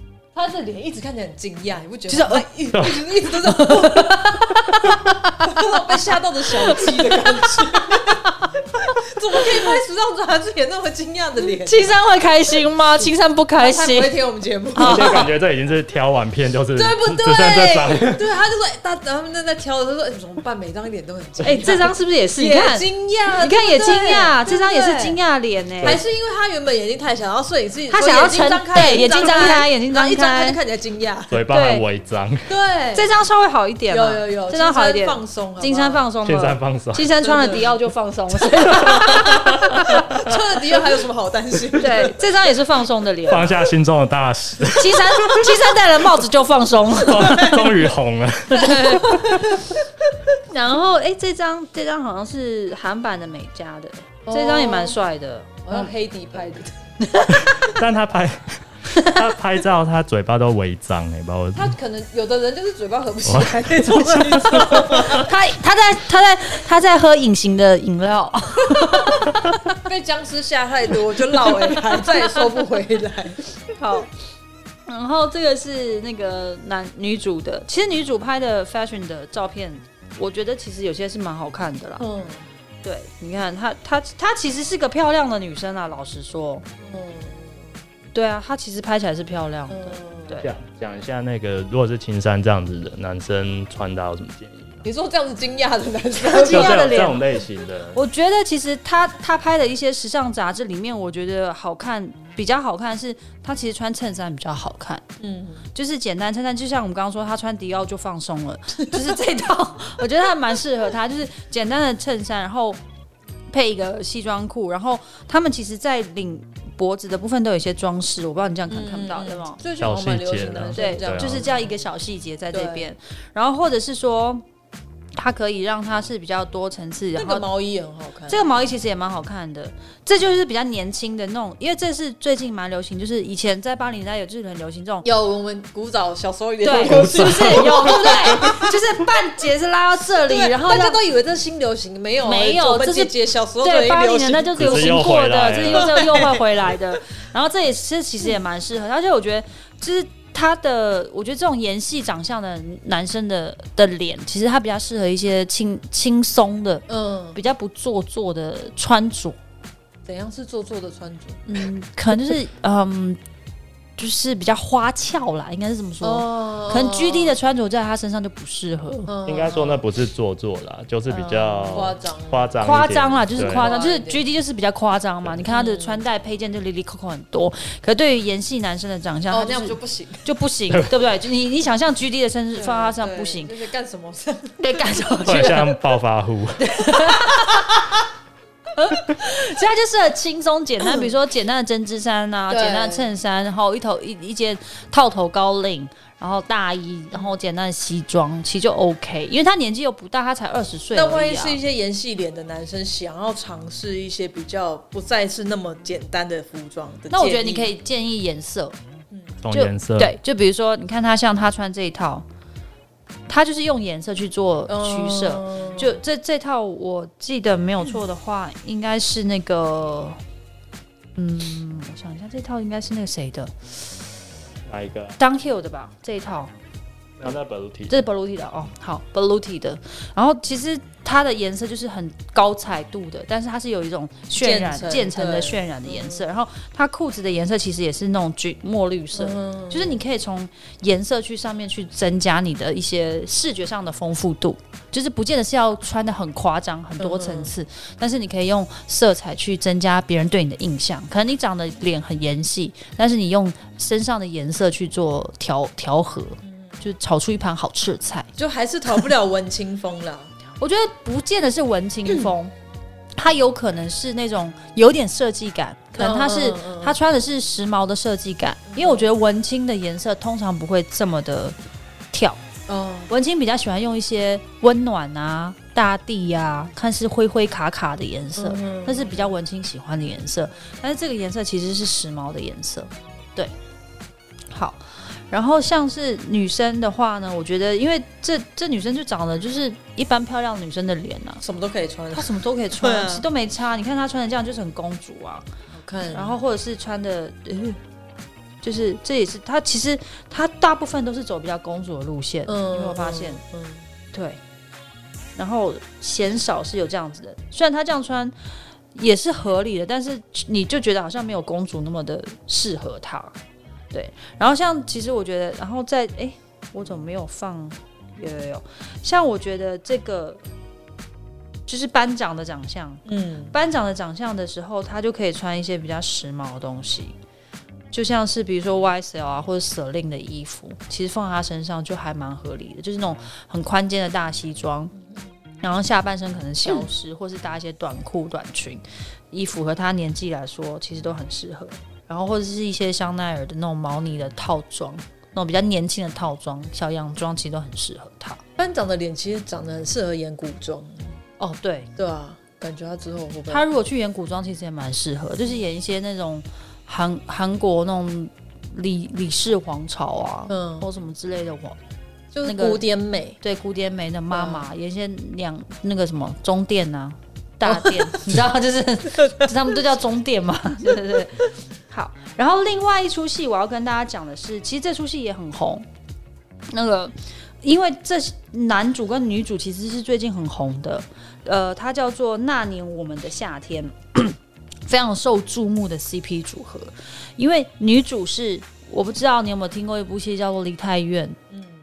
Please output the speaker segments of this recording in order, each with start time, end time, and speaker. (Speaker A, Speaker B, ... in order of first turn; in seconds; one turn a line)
Speaker A: 0.3-4.4
Speaker B: 2.1-2.5
Speaker C: 2.7-3.0
Speaker B: 3.4-5.9
Speaker A: 5.3-11.9
Speaker B: 6.5-9.8
Speaker B: 11.6-14.1
Speaker A: 13.6-15.3
Speaker B: 14.7-15.3
Speaker C: 14.8-18.3
Speaker A: 16.7-25.2
Speaker B: 21.4-26.0
Speaker A: 25.8-31.4
Speaker B: 27.9-30.6
Speaker C: 31.3-32.5
Speaker B: 31.5-31.8
Speaker A: 32.5-33.1
Speaker B: 32.9-40.1
Speaker A: 33.9-36.0
Speaker C: 36.2-37.1
Speaker A: 37.2-37.8
Speaker C: 38.7-40.4
Speaker A: 38.7-42.3
Speaker B: 41.8-43.5
Speaker C: 43.3-45.6
Speaker B: 44.7-47.9
Speaker C: 47.0-49.4
Speaker B: 48.5-49.6
Speaker A: 48.6-49.6
Speaker B: 50.5-55.9
Speaker A: 54.2-55.0
Speaker A: 55.6-56.8
Speaker B: 57.0-57.8
Speaker C: 57.3-61.8
Speaker B: 58.9-59.2
Speaker A: 61.5-65.3
Speaker C: 63.2-65.3
Speaker B: 65.1-69.8
Speaker A: 69.8-73.5
Speaker B: 71.4-72.5
Speaker B: 73.8-74.1
Speaker B: 74.9-82.0
Speaker A: 82.0-82.5
Speaker B: 82.8-86.6
Speaker A: 86.8-87.8
Speaker B: 88.1-90.5
Speaker A: 89.7-90.4
Speaker C: 90.4-94.8
Speaker A: 94.8-97.1
Speaker B: 96.2-97.2
Speaker C: 96.5-98.0
Speaker B: 97.9-105.0
Speaker A: 105.2-105.7
Speaker B: 105.7-112.8
Speaker B: 113.5-119.6
Speaker A: 118.7-121.7
Speaker C: 119.8-121.4
Speaker B: 120.7-124.4
Speaker A: 122.5-122.9
Speaker B: 125.2-127.5
Speaker A: 127.2-128.5
Speaker B: 128.3-135.1
Speaker A: 135.0-138.8
Speaker B: 136.6-141.0
Speaker C: 136.8-138.1
Speaker A: 140.3-145.1
Speaker B: 142.2-159.4
Speaker C: 144.6-146.2
Speaker A: 145.7-146.8
Speaker A: 156.9-157.4
Speaker A: 160.1-161.4
Speaker B: 161.4-163.2
Speaker B: 164.0-169.1
Speaker A: 166.0-167.3
Speaker A: 169.1-169.8
Speaker C: 169.2-173.7
Speaker A: 171.1-172.7
Speaker B: 172.6-183.5
Speaker A: 173.3-174.2
Speaker A: 175.4-176.0
Speaker A: 179.3-180.3
Speaker A: 182.5-185.5
Speaker B: 184.6-185.7
Speaker C: 185.2-186.7
Speaker B: 186.6-187.8
Speaker A: 187.2-187.6
Speaker B: 188.7-201.6
Speaker A: 190.8-191.2
Speaker A: 192.5-193.1
Speaker A: 200.9-207.7
Speaker B: 207.1-208.8
Speaker C: 209.4-210.2
Speaker B: 209.5-212.2
Speaker B: 213.3-220.2
Speaker A: 214.7-215.9
Speaker B: 221.2-223.6
Speaker C: 224.7-225.2
Speaker B: 225.2-226.5
Speaker C: 227.2-228.0
Speaker B: 227.9-258.3
Speaker A: 234.4-236.2
Speaker A: 239.1-240.0
Speaker A: 247.0-247.5
Speaker A: 256.4-256.8
Speaker A: 258.4-260.3
Speaker B: 260.6-262.5
Speaker B: 263.2-271.6
Speaker A: 266.0-267.0
Speaker A: 268.7-269.1
Speaker B: 272.1-272.4
Speaker A: 272.7-273.1
Speaker B: 273.1-283.5
Speaker A: 278.4-279.4
Speaker B: 284.5-291.4
Speaker A: 291.4-293.2
Speaker B: 292.1-295.4
Speaker A: 295.7-296.4
Speaker B: 296.1-297.8
Speaker B: 298.6-303.4
Speaker A: 302.4-303.9
Speaker B: 304.1-304.4
Speaker B: 305.4-308.3
Speaker B: 308.9-313.4
Speaker B: 313.9-320.4
Speaker B: 321.7-327.1
Speaker A: 323.1-323.5
Speaker B: 327.9-334.9
Speaker B: 335.6-348.4
Speaker A: 348.6-351.1
Speaker B: 351.4-351.9
Speaker A: 351.9-353.6
Speaker B: 353.5-361.8
Speaker A: 360.5-360.9
Speaker A: 362.3-363.4
Speaker B: 362.4-362.8
Speaker B: 363.4-375.8
Speaker A: 364.3-364.7
Speaker A: 367.6-368.3
Speaker A: 369.2-369.8
Speaker B: 376.7-391.4